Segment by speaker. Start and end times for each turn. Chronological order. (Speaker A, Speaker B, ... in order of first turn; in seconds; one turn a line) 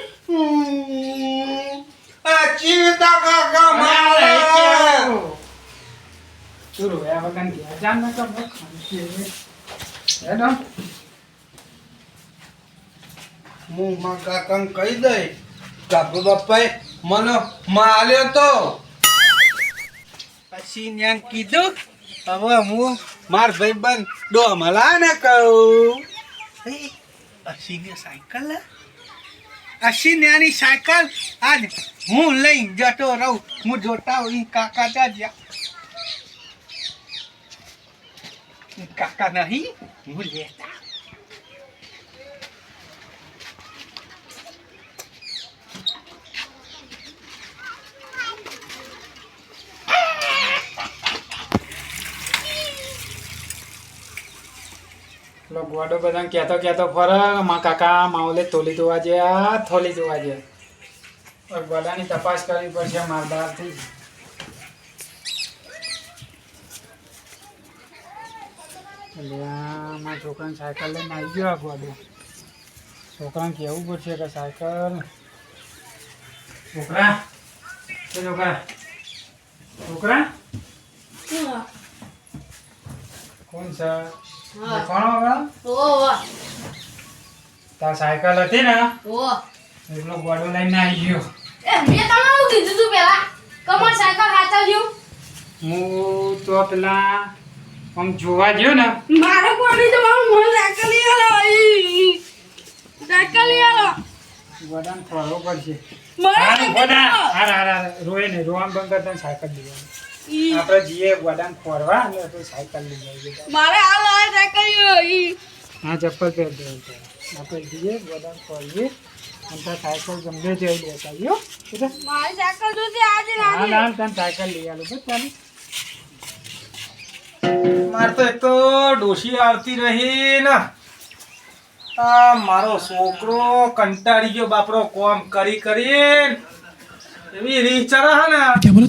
Speaker A: 0.3-5.1
Speaker B: 3.7-5.4
Speaker B: 6.8-9.3
Speaker B: 10.2-10.6
Speaker A: 13.7-15.3
Speaker A: 15.9-18.8
Speaker A: 20.5-21.7
Speaker A: 22.3-26.0
Speaker A: 26.6-26.9
Speaker A: 27.5-28.6
Speaker A: 29.8-35.3
Speaker A: 38.8-40.7
Speaker B: 55.5-60.4
Speaker B: 61.5-63.9
Speaker B: 69.2-72.0
Speaker B: 73.1-75.0
Speaker B: 76.7-77.2
Speaker B: 78.1-78.6
Speaker B: 79.8-80.3
Speaker C: 81.3-81.7
Speaker B: 83.5-84.1
Speaker C: 84.6-84.9
Speaker B: 84.7-85.5
Speaker C: 85.6-86.2
Speaker B: 87.8-88.9
Speaker C: 89.0-89.4
Speaker B: 89.9-91.3
Speaker C: 91.6-94.9
Speaker B: 95.6-97.3
Speaker B: 98.0-99.0
Speaker C: 99.1-102.2
Speaker C: 103.0-104.0
Speaker B: 104.6-105.8
Speaker C: 106.2-107.3
Speaker B: 106.3-109.9
Speaker C: 110.3-110.6
Speaker B: 110.5-113.5
Speaker C: 113.5-115.4
Speaker B: 115.8-118.9
Speaker B: 119.5-121.9
Speaker C: 122.0-123.8
Speaker B: 123.4-125.3
Speaker D: 127.8-130.6
Speaker D: 132.0-136.4
Speaker D: 137.3-138.7